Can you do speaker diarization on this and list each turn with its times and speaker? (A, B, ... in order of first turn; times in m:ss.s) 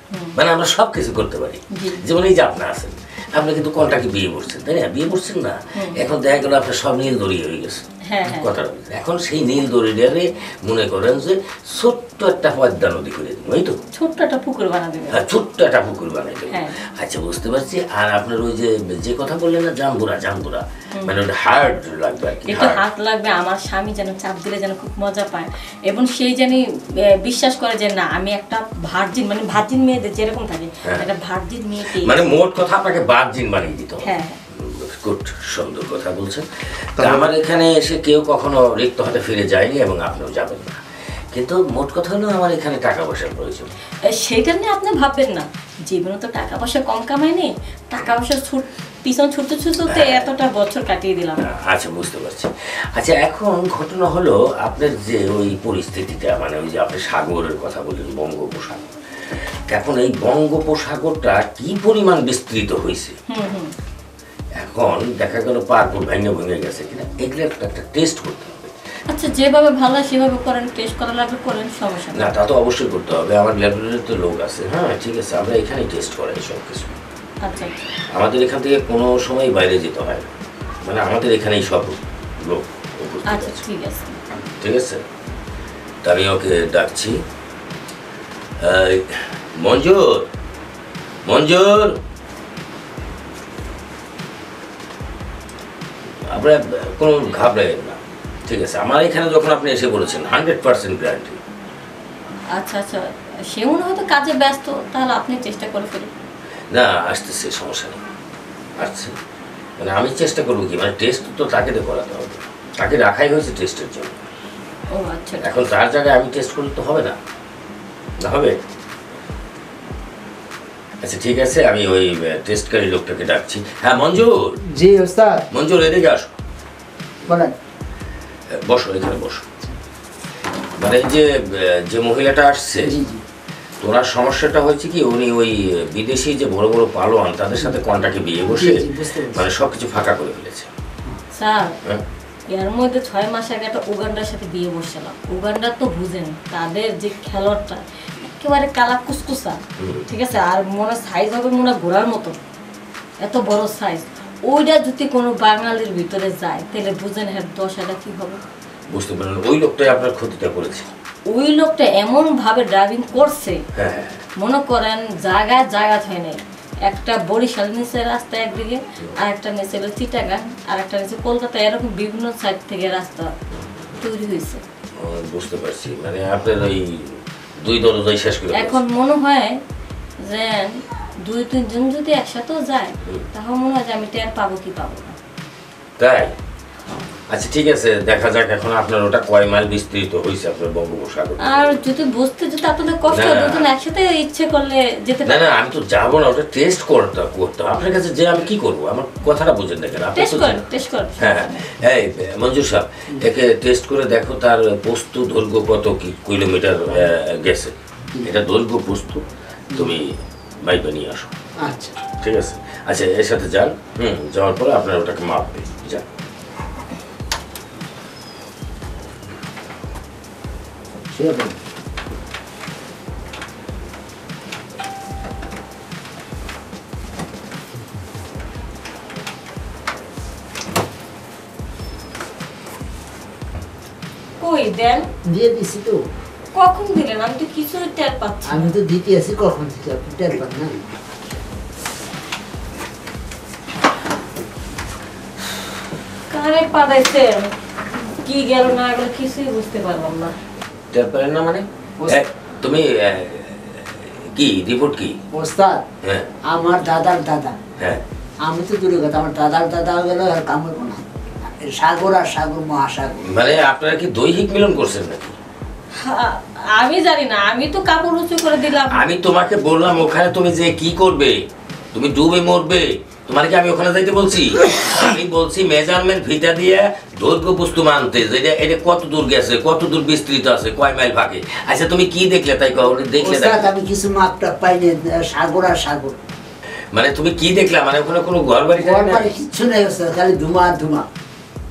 0:00.1-0:00.4 A
0:00.4-0:13.8 B
0:01.7-0:02.0 A
0:08.1-0:08.5 A
0:13.9-0:15.2 A
0:15.1-0:22.8 B
0:16.5-0:16.8 A
0:22.4-0:26.6 A
0:27.2-0:32.2 A
0:32.0-0:34.1 B
0:34.0-0:34.4 A
0:34.6-0:40.8 B
0:37.0-0:37.3 C
0:41.3-0:43.7 B
0:44.1-0:51.4 A
0:49.9-0:50.3 B
0:51.4-0:58.9 B
0:59.7-1:03.1 B
1:03.3-1:03.7 A
1:04.6-1:08.7 B
1:09.1-1:12.3 A
1:12.1-1:17.0 B
1:17.4-1:17.7 A
1:18.1-1:20.3 B
1:20.8-1:23.6 B
1:23.3-1:24.2 A
1:24.6-1:25.0 B
1:26.0-1:27.2 B
1:28.6-1:30.3 B
1:31.2-1:32.0 B
1:36.3-1:41.4 B
1:42.6-1:46.1 A
1:46.7-1:48.0 B
1:48.8-1:49.1 B
1:49.8-1:54.2 B
1:54.9-1:55.6 A
1:55.4-1:57.2 B
1:58.2-1:58.6 B
2:01.0-2:04.6 B
2:04.6-2:05.4 C
2:05.5-2:06.3 B
2:07.3-2:07.5 C
2:08.6-2:09.4 B
2:10.8-2:12.9 B
2:12.8-2:13.2 C
2:13.8-2:20.7 B
2:18.4-2:19.5 C
2:21.3-2:21.8 A
2:22.5-2:32.4 A
2:29.8-2:30.1 B
2:33.2-2:38.4 A
2:38.9-2:40.9 B
2:41.3-2:43.6 A
2:43.8-2:44.2 B
2:44.4-2:53.3 A
2:54.0-2:54.6 A
2:55.0-2:58.8 B
2:58.5-2:59.6 A
3:00.2-3:05.2 A
3:06.0-3:06.3 B
3:07.3-3:11.8 B
3:11.4-3:15.5 A
3:13.1-3:13.6 B
3:15.2-3:20.6 B
3:20.1-3:21.6 A
3:21.2-3:31.3 B
3:31.6-3:32.0 C
3:32.2-3:36.0 B
3:41.1-3:41.6 C
3:54.4-3:55.0 A
3:55.3-3:56.0 C
3:56.5-3:58.7 A
3:58.5-4:00.9 C
4:06.3-4:10.3 A
4:10.9-4:15.2 B
4:15.3-4:15.8 C
4:16.0-4:16.3 B
4:16.4-4:17.6 C
4:17.8-4:18.0 B
4:18.4-4:23.2 C
4:23.2-4:25.4 B
4:26.0-4:29.0 A
4:28.9-4:43.7 B
4:43.2-4:46.2 C
4:46.9-4:49.3 B
4:48.8-4:51.1 C